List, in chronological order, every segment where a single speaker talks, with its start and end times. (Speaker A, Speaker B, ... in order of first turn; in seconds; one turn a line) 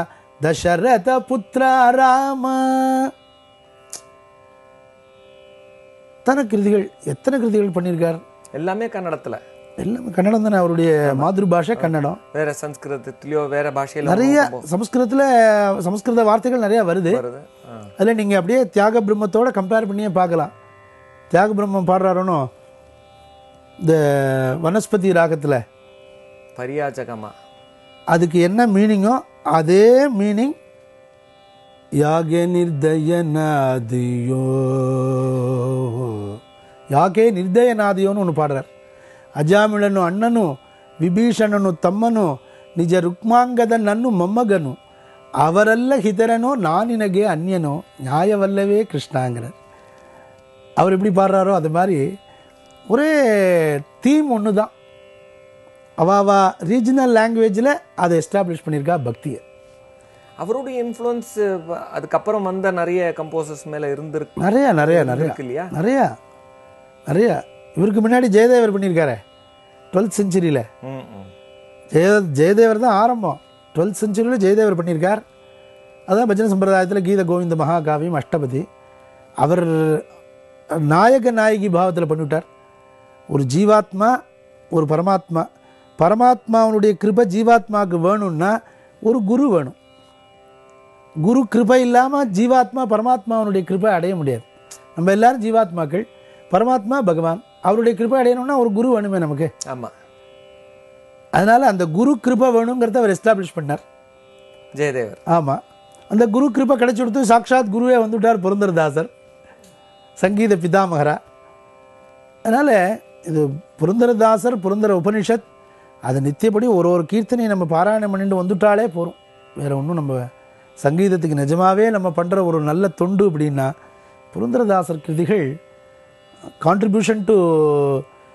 Speaker A: 0.4-3.1
Speaker A: 6.2-8.2
Speaker B: 8.5-9.4
Speaker A: 9.8-12.2
Speaker B: 11.0-14.7
Speaker A: 14.0-17.2
Speaker B: 17.1-17.9
Speaker A: 18.0-20.5
Speaker A: 21.3-22.5
Speaker A: 23.8-25.6
Speaker B: 26.6-27.3
Speaker A: 28.1-30.5
Speaker A: 32.0-36.3
Speaker A: 36.9-38.7
Speaker A: 39.4-44.8
Speaker A: 45.4-49.5
Speaker A: 50.8-52.0
Speaker A: 52.9-54.7
Speaker A: 56.0-59.4
Speaker B: 60.4-65.7
Speaker A: 64.4-66.1
Speaker A: 67.1-69.2
Speaker A: 69.9-70.7
Speaker B: 70.8-71.3
Speaker A: 71.9-75.2
Speaker A: 76.1-78.6
Speaker A: 79.4-80.0
Speaker A: 80.8-82.4
Speaker A: 83.3-84.1
Speaker A: 84.7-85.5
Speaker A: 86.0-89.8
Speaker A: 91.2-94.4
Speaker A: 95.0-99.5
Speaker A: 101.3-103.8
Speaker B: 104.7-105.2
Speaker A: 105.3-105.6
Speaker A: 106.1-109.1
Speaker A: 110.2-111.2
Speaker A: 112.5-115.4
Speaker A: 116.1-120.2
Speaker A: 120.8-123.7
Speaker A: 124.3-125.5
Speaker A: 126.6-128.0